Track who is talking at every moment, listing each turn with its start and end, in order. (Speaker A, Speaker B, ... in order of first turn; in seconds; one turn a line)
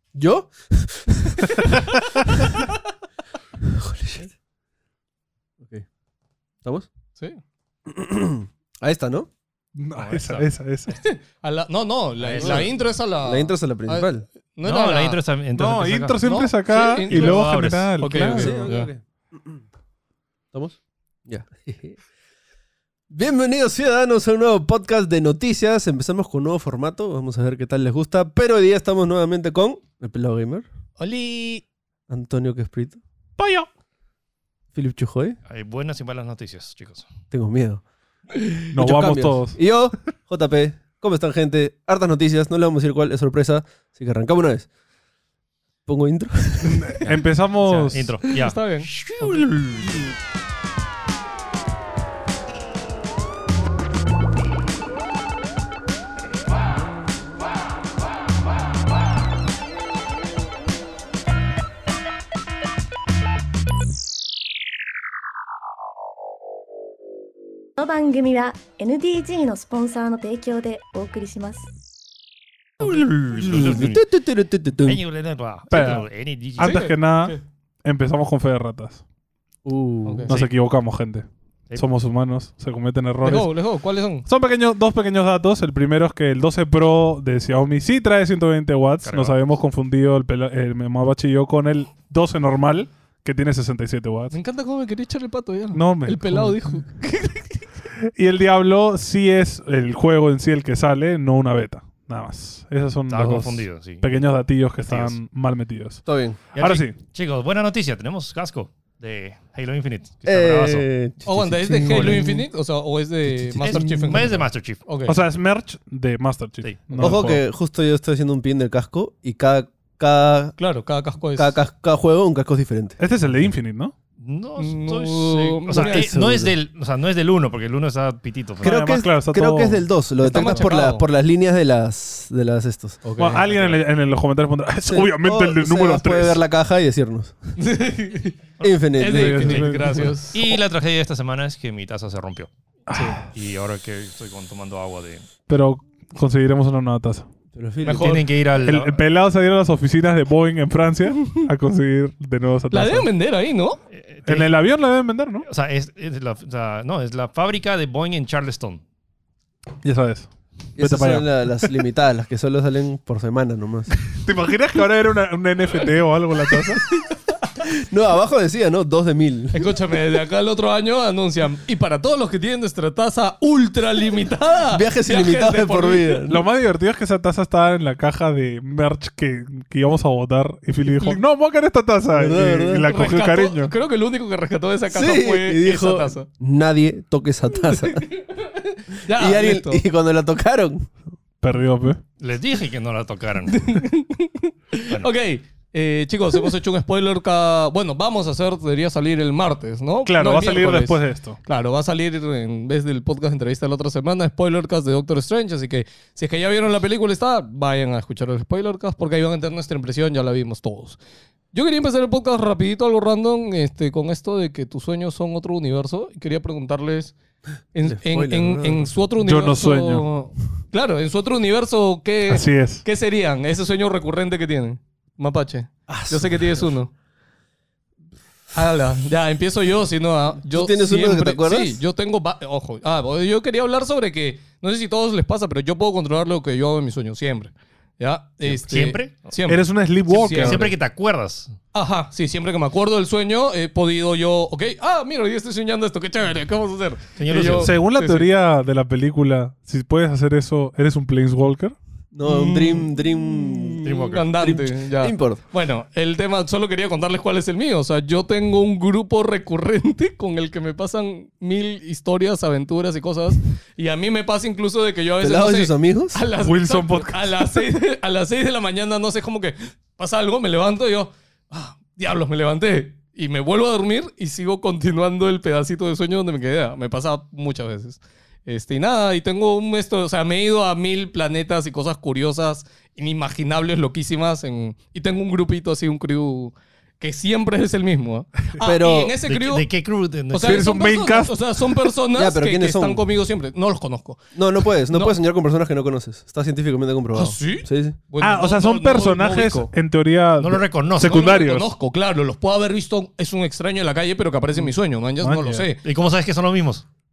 Speaker A: 0.1-1.6
Speaker A: 3.6-4.3
Speaker A: 5.6-5.9
Speaker A: 6.6-6.9
Speaker A: 7.9-9.3
Speaker B: 9.8-11.0
Speaker C: 9.9-10.4
Speaker D: 10.9-15.2
Speaker C: 12.2-12.7
Speaker A: 12.4-14.2
Speaker C: 14.6-16.3
Speaker B: 15.6-18.5
Speaker D: 16.2-18.9
Speaker C: 17.1-18.0
Speaker A: 18.3-19.6
Speaker A: 20.5-22.0
Speaker A: 23.1-30.7
Speaker C: 31.0-31.6
Speaker A: 32.1-33.0
Speaker B: 33.4-33.7
Speaker A: 34.7-35.4
Speaker C: 35.5-37.1
Speaker A: 37.3-37.8
Speaker A: 38.3-44.7
Speaker B: 38.7-39.6
Speaker A: 45.9-47.0
Speaker B: 46.6-48.1
Speaker C: 47.0-50.1
Speaker D: 48.4-49.4
Speaker E: 67.8-71.7
Speaker C: 72.8-74.0
Speaker A: 73.3-75.0
Speaker C: 74.8-76.9
Speaker B: 75.7-79.0
Speaker D: 76.6-77.4
Speaker A: 79.7-80.3
Speaker D: 80.1-80.3
Speaker B: 80.3-83.5
Speaker D: 83.2-84.3
Speaker B: 84.3-94.3
Speaker C: 89.0-89.4
Speaker D: 94.3-97.7
Speaker B: 95.7-96.6
Speaker B: 98.1-106.0
Speaker C: 103.1-104.1
Speaker C: 104.8-105.2
Speaker A: 106.1-106.4
Speaker C: 106.5-110.8
Speaker B: 106.6-107.0
Speaker A: 110.3-112.5
Speaker D: 111.3-115.2
Speaker A: 113.3-114.4
Speaker C: 113.6-114.8
Speaker B: 115.1-117.4
Speaker A: 117.0-120.5
Speaker D: 120.6-121.5
Speaker A: 121.4-123.0
Speaker B: 123.0-123.9
Speaker C: 124.2-128.8
Speaker D: 124.6-126.1
Speaker A: 125.8-126.5
Speaker A: 128.6-133.0
Speaker B: 128.6-129.8
Speaker D: 130.2-131.0
Speaker D: 133.1-133.4
Speaker B: 133.2-136.4
Speaker C: 133.3-133.8
Speaker A: 134.9-137.6
Speaker D: 137.6-138.4
Speaker A: 138.6-140.0
Speaker D: 139.0-140.4
Speaker B: 139.1-140.2
Speaker C: 140.3-142.5
Speaker B: 142.9-143.2
Speaker D: 142.9-143.2
Speaker C: 143.2-145.3
Speaker B: 145.5-147.3
Speaker A: 147.5-148.3
Speaker D: 147.8-148.2
Speaker C: 147.9-149.0
Speaker B: 148.6-153.1
Speaker D: 152.7-153.8
Speaker C: 153.9-154.5
Speaker B: 154.3-155.5
Speaker C: 155.4-158.8
Speaker B: 159.8-161.7
Speaker A: 160.8-163.9
Speaker B: 163.9-166.9
Speaker A: 167.6-169.7
Speaker D: 169.5-176.2
Speaker A: 174.7-176.4
Speaker B: 176.3-183.7
Speaker D: 180.9-181.2
Speaker A: 182.1-182.9
Speaker D: 182.8-186.3
Speaker A: 184.9-188.0
Speaker D: 187.8-189.8
Speaker A: 189.1-190.9
Speaker B: 191.4-192.0
Speaker C: 192.2-193.8
Speaker D: 193.5-211.0
Speaker B: 200.1-201.4
Speaker D: 211.5-217.1
Speaker D: 217.7-226.9
Speaker A: 217.8-218.9
Speaker B: 219.2-220.1
Speaker B: 222.3-222.8
Speaker A: 225.9-226.7
Speaker D: 228.5-240.7
Speaker A: 230.5-231.8
Speaker C: 238.7-239.3
Speaker B: 239.5-240.7
Speaker C: 240.2-241.6
Speaker D: 241.7-248.3
Speaker C: 247.2-247.8
Speaker B: 247.6-251.8
Speaker A: 252.1-255.4
Speaker D: 252.2-289.7
Speaker C: 253.8-254.3
Speaker A: 265.2-266.2
Speaker B: 266.4-267.6
Speaker A: 288.6-289.2
Speaker C: 289.3-290.7
Speaker D: 290.3-294.2
Speaker B: 290.4-291.4
Speaker A: 292.1-293.1
Speaker A: 294.4-298.0
Speaker D: 294.9-295.2
Speaker D: 297.1-299.7
Speaker B: 298.2-301.7
Speaker C: 300.4-301.2
Speaker D: 301.0-305.8
Speaker B: 305.2-305.7
Speaker C: 305.8-306.9